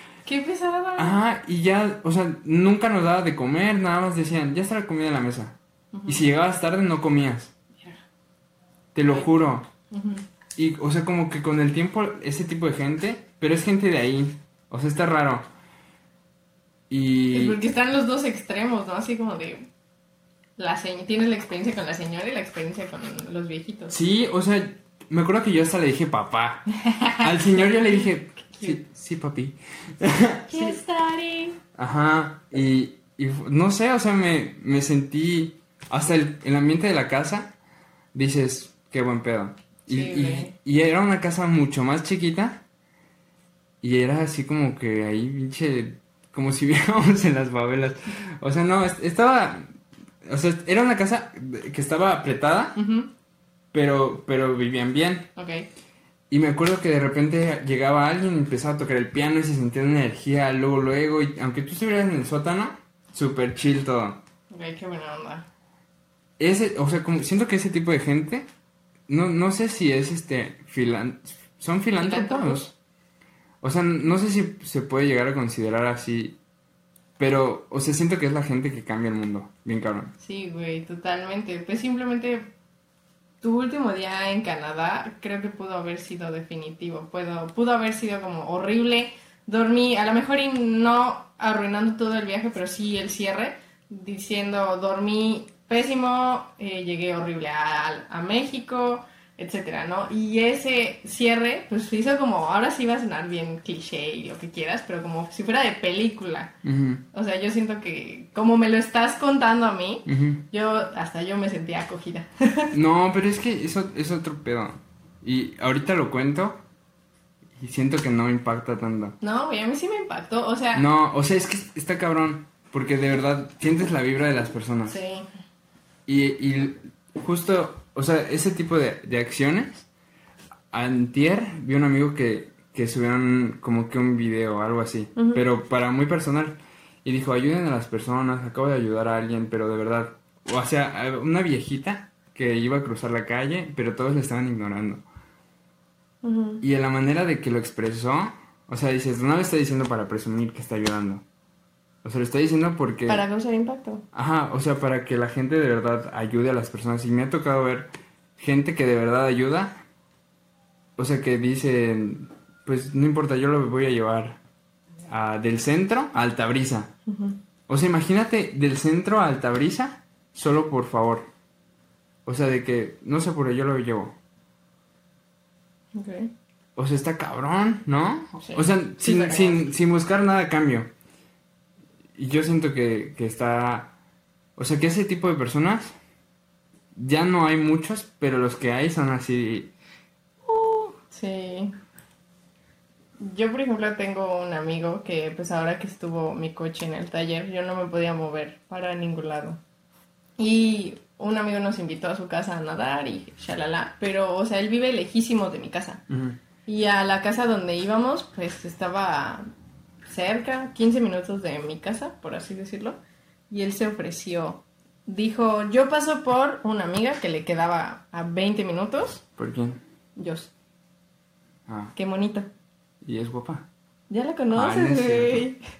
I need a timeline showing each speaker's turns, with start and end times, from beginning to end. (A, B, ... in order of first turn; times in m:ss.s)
0:00.2-0:01.2 A
0:01.0-0:07.5 B
0:05.9-0:06.2 A
0:08.9-0:09.7 B
0:09.9-0:10.2 A
0:10.6-0:15.4 B
0:16.9-0:17.6 B
0:17.3-0:19.7 A
0:20.6-0:23.9 A
0:23.9-0:26.7 B
0:26.9-0:28.8 A
0:27.2-0:30.8 B
0:30.5-0:31.6 A
0:31.7-0:37.5 B
0:38.1-0:42.6 B
0:39.9-0:40.5 A
0:43.8-0:49.7 B
0:50.2-0:52.8 B
0:52.8-0:53.1 A
0:53.7-0:55.3 B
0:55.4-0:55.6 A
0:56.3-1:04.2 B
1:04.5-1:05.5 A
1:06.4-1:08.5 B
1:09.1-1:12.7 B
1:12.0-1:12.6 A
1:13.6-1:16.4 B
1:17.2-1:20.1 B
1:20.2-1:22.5 A
1:23.4-1:46.5 A
1:46.6-1:47.0 B
1:47.1-1:52.7 A
1:50.1-1:50.4 B
1:52.7-1:56.6 B
1:57.6-1:59.2 B
1:59.2-2:00.8 A
2:00.7-2:05.0 B
2:04.9-2:05.2 A
2:06.0-2:09.9 B
2:10.7-2:25.0 B
2:15.2-2:15.4 A
2:26.2-2:26.6 A
2:26.6-2:31.2 B
2:32.0-2:33.2 B
2:33.1-2:34.0 A
2:34.1-2:39.8 B
2:41.0-2:44.4 B
2:45.1-2:46.9 B
2:47.1-2:47.4 A
2:47.7-2:51.2 B
2:52.2-2:54.1 B
2:55.9-2:56.3 A
2:56.8-3:00.9 B
2:58.4-2:59.6 A
3:02.2-3:03.9 B
3:04.6-3:05.9 B
3:06.9-3:09.7 B
3:10.4-3:11.7 A
3:13.2-3:19.6 A
3:20.4-3:26.0 A
3:26.1-3:26.4 B
3:26.7-3:29.4 A
3:30.1-3:33.0 A
3:33.5-3:39.2 A
3:39.4-3:39.8 B
3:40.2-3:40.5 A
3:41.7-3:41.9 B
3:41.9-3:42.5 A
3:43.0-3:43.7 B
3:44.1-3:45.6 A
3:44.5-3:45.4 B